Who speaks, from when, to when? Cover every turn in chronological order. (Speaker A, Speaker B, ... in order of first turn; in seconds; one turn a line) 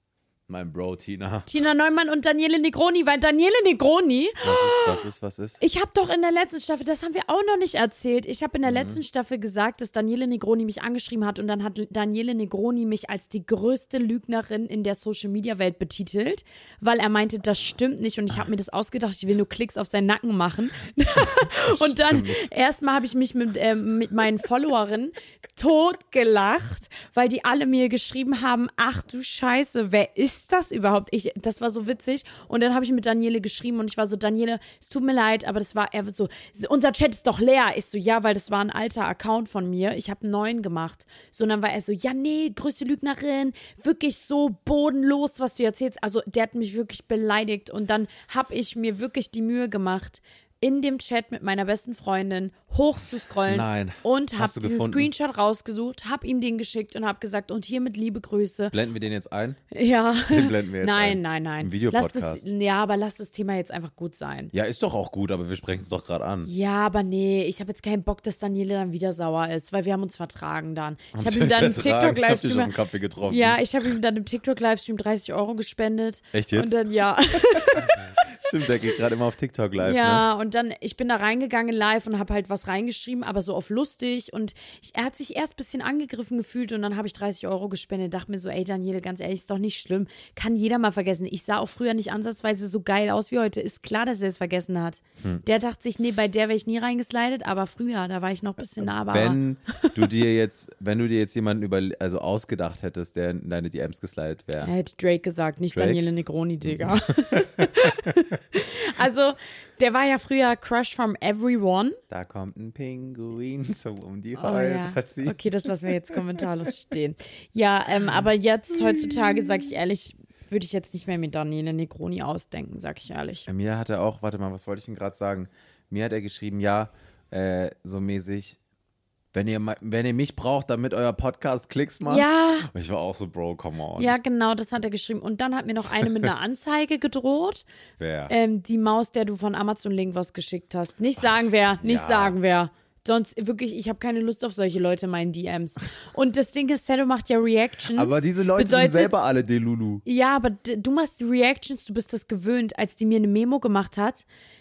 Speaker A: 0.5-1.5
Speaker B: 1.5-5.0
Speaker A: 4.4-5.6
Speaker B: 5.6-58.8
Speaker A: 8.7-9.0
Speaker A: 21.6-22.5
Speaker A: 53.5-55.1
Speaker A: 58.7-59.6
Speaker B: 59.7-64.5
Speaker A: 60.3-62.4
Speaker A: 64.5-66.5
Speaker B: 66.5-72.7
Speaker A: 71.1-73.6
Speaker B: 73.2-78.7
Speaker A: 76.3-76.8
Speaker A: 77.5-80.2
Speaker B: 79.8-100.1
Speaker A: 99.0-104.7
Speaker B: 104.6-112.0
Speaker A: 105.7-106.0
Speaker A: 106.6-108.2
Speaker A: 112.1-115.4
Speaker B: 114.4-123.5
Speaker A: 116.1-116.4
Speaker A: 118.9-119.3
Speaker A: 123.5-128.6
Speaker A: 129.3-134.1
Speaker B: 132.1-132.7
Speaker B: 134.0-137.7
Speaker A: 138.0-138.3
Speaker B: 138.3-149.2
Speaker A: 141.8-142.4
Speaker A: 147.9-150.0
Speaker B: 150.0-154.2